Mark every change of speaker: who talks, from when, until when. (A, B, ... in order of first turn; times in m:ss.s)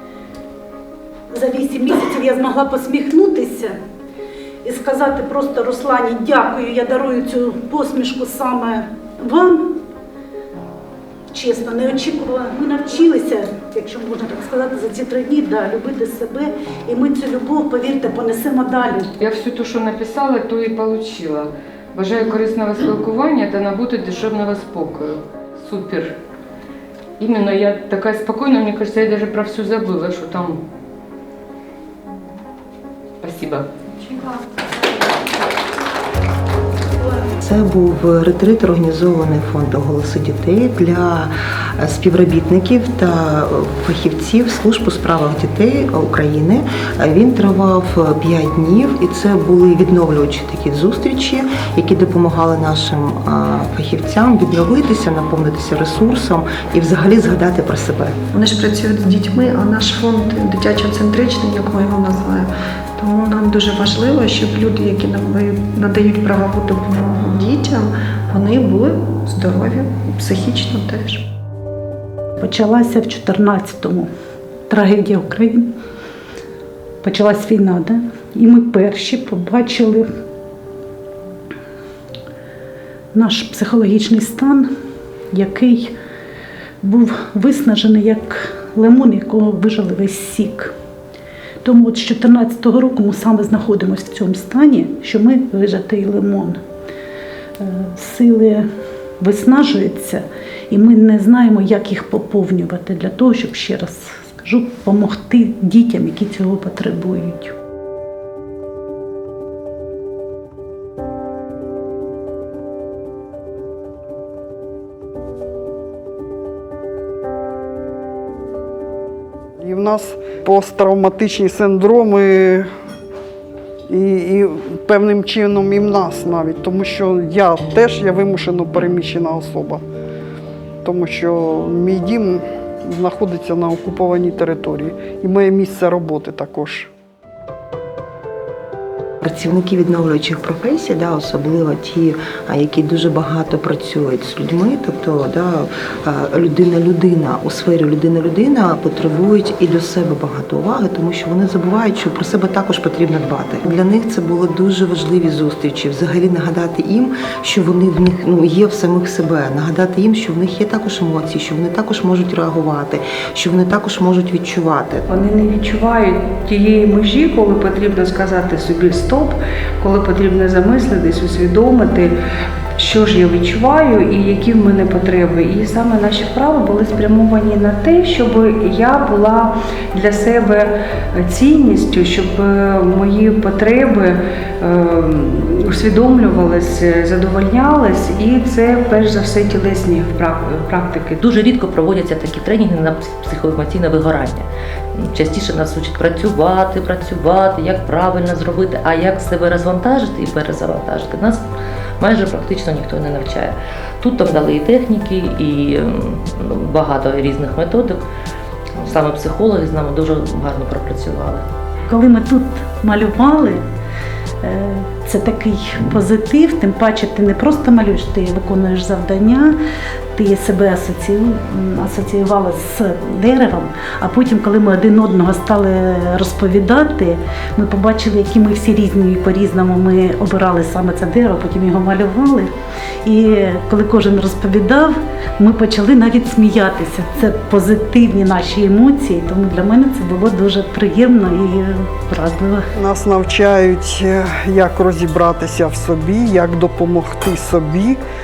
0:01.3-0:03.8 A
0:04.6-0:09.8 A
0:11.3-0:19.1 A
0:19.2-0:25.0 B
0:25.6-0:26.0 B
0:27.2-0:30.6 B
0:33.2-0:33.6 B
0:37.4-0:58.2 C
0:58.3-1:11.2 D
1:12.4-1:14.1 A
1:14.7-1:15.7 A
1:17.0-1:20.1 A
1:23.1-1:24.7 A
1:25.3-1:25.9 A
1:26.8-1:30.7 A
1:31.6-1:36.6 A
1:37.6-1:38.7 A
1:39.2-1:47.5 A
1:59.6-2:02.7 E
2:03.9-2:09.8 E
2:10.8-2:16.9 E
2:19.2-2:45.1 C
2:45.1-2:52.2 F
2:52.8-3:11.2 F
3:11.2-3:21.4 G
3:22.0-3:28.0 G
3:28.8-3:31.4 G
3:31.9-3:33.6 A
3:34.4-3:39.6 A
3:40.2-3:52.5 A
3:53.0-4:02.7 A
4:02.8-4:08.0 E